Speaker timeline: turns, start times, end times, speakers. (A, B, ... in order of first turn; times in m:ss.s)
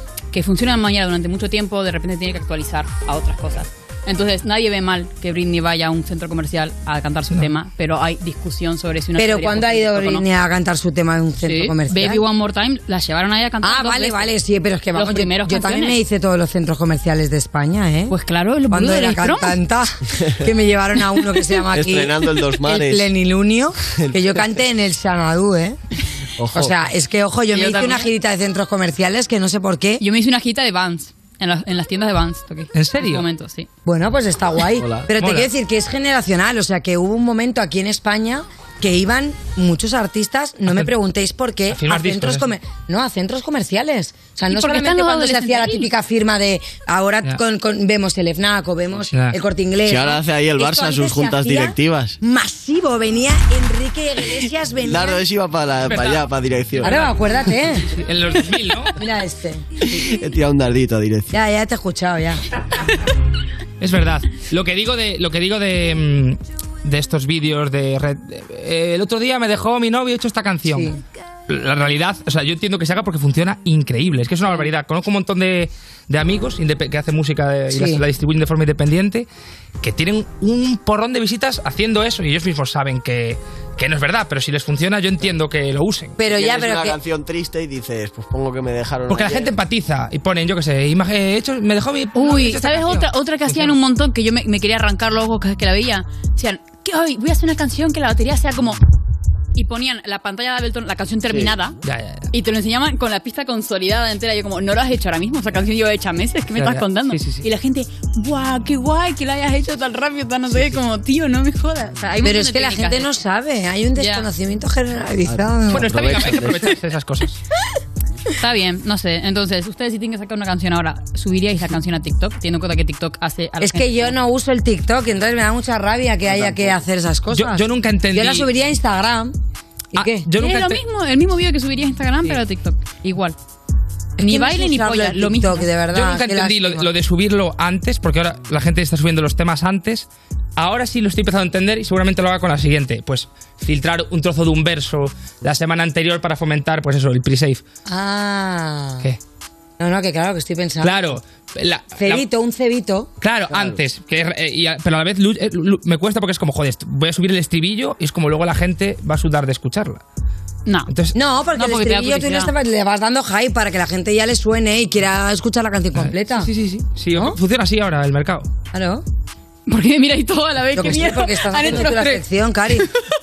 0:00.3-0:10.2 A
0:09.2-0:12.2 B
0:11.4-0:14.3 A
0:13.6-0:18.2 B
0:14.9-0:16.0 A
0:18.1-0:19.6 A
0:18.7-0:25.8 B
0:21.7-0:23.1 C
0:26.4-0:26.8 C
0:26.5-0:30.0 B
0:27.5-0:28.1 A
0:30.0-0:33.7 A
0:32.7-0:33.3 D
0:33.8-0:55.2 B
0:34.8-0:35.1 C
0:35.2-0:35.5 D
0:41.7-0:42.5 D
0:44.5-0:45.9 A
0:49.1-0:49.4 D
0:49.9-0:52.2 C
0:54.9-0:57.1 C
0:55.8-0:59.0 D
0:56.8-0:57.9 B
0:59.0-0:59.6 B
0:59.9-1:01.3 C
1:01.3-1:02.4 B
1:03.8-1:10.9 D
1:10.7-1:11.0 B
1:11.5-1:19.3 D
1:17.7-1:18.0 B
1:19.8-1:26.2 D
1:26.2-1:27.0 B
1:26.3-1:29.6 C
1:29.1-1:33.8 D
1:32.2-1:38.8 A
1:39.6-1:41.8 A
1:41.8-1:42.3 D
1:42.3-1:53.1 A
1:46.6-1:47.4 D
1:52.2-1:56.4 B
1:54.0-1:54.3 A
1:55.3-1:56.6 C
1:55.7-1:57.4 D
1:58.4-2:04.2 A
2:03.6-2:09.4 B
2:06.3-2:06.7 C
2:07.3-2:08.5 D
2:09.9-2:10.3 B
2:09.9-2:10.8 D
2:10.4-2:13.4 A
2:14.2-2:15.7 A
2:14.2-2:16.9 B
2:15.9-2:27.6 D
2:27.9-2:29.1 B
2:29.8-2:31.1 B
2:30.8-2:32.2 D
2:32.0-2:33.1 B
2:33.2-2:40.0 D
2:40.9-2:41.2 D
2:41.1-2:46.5 B
2:41.6-2:42.5 A
2:46.0-2:48.5 D
2:47.1-2:47.4 B
2:48.7-2:49.0 B
2:49.7-2:52.2 A
2:50.8-2:52.9 B